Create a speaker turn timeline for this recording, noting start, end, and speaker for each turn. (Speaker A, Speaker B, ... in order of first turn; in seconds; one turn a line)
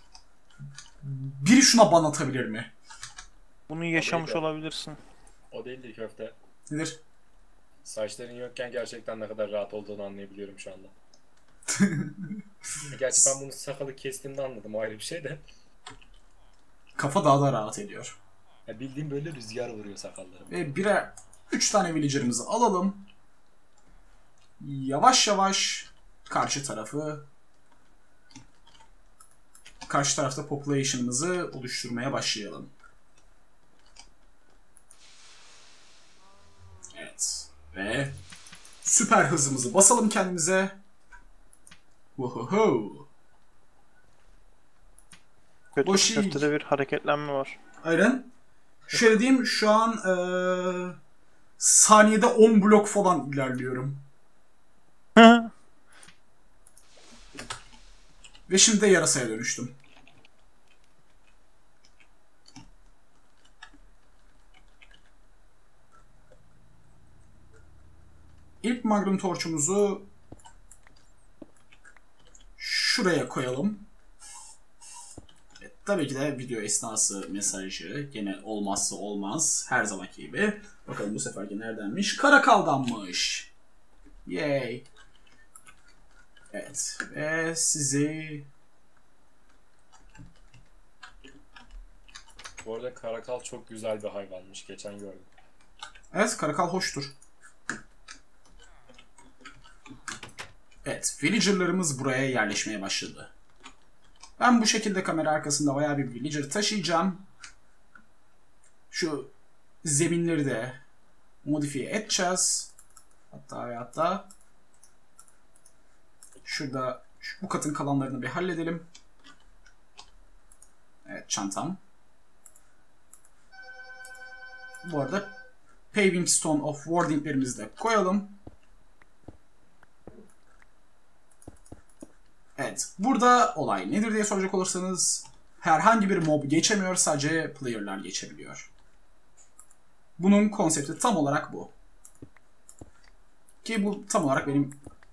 Speaker A: 1.0-2.7
Speaker B: 3.7-5.0
Speaker C: 3.9-4.4
Speaker C: 5.5-6.3
Speaker A: 6.7-7.0
Speaker C: 7.8-10.9
Speaker A: 11.7-12.4
Speaker C: 12.9-15.4
Speaker A: 17.0-18.2
Speaker C: 18.7-20.6
Speaker A: 20.5-23.1
Speaker A: 24.6-27.3
Speaker A: 29.9-32.7
Speaker A: 36.9-38.2
Speaker A: 38.8-40.8
Speaker A: 42.2-43.1
Speaker B: 45.8-47.6
Speaker A: 45.8-46.5
Speaker A: 47.8-48.3
Speaker A: 48.9-51.0
Speaker A: 51.6-54.0
Speaker B: 55.2-55.5
Speaker A: 58.5-59.8
Speaker A: 68.6-70.1
Speaker A: 72.6-73.9
Speaker A: 75.6-83.5
Speaker A: 84.2-84.9
Speaker A: 86.5-88.5
Speaker C: 92.6-95.3
Speaker A: 96.1-97.2
Speaker A: 100.8-103.3
Speaker A: 104.4-107.2
Speaker A: 108.9-109.3
Speaker A: 109.8-110.8
Speaker A: 111.4-112.7
Speaker A: 113.3-114.3
Speaker A: 116.4-118.9
Speaker A: 121.1-121.8
Speaker A: 124.8-125.3
Speaker A: 125.9-128.4
Speaker A: 132.6-138.7
Speaker A: 140.2-141.7
Speaker A: 143.6-144.8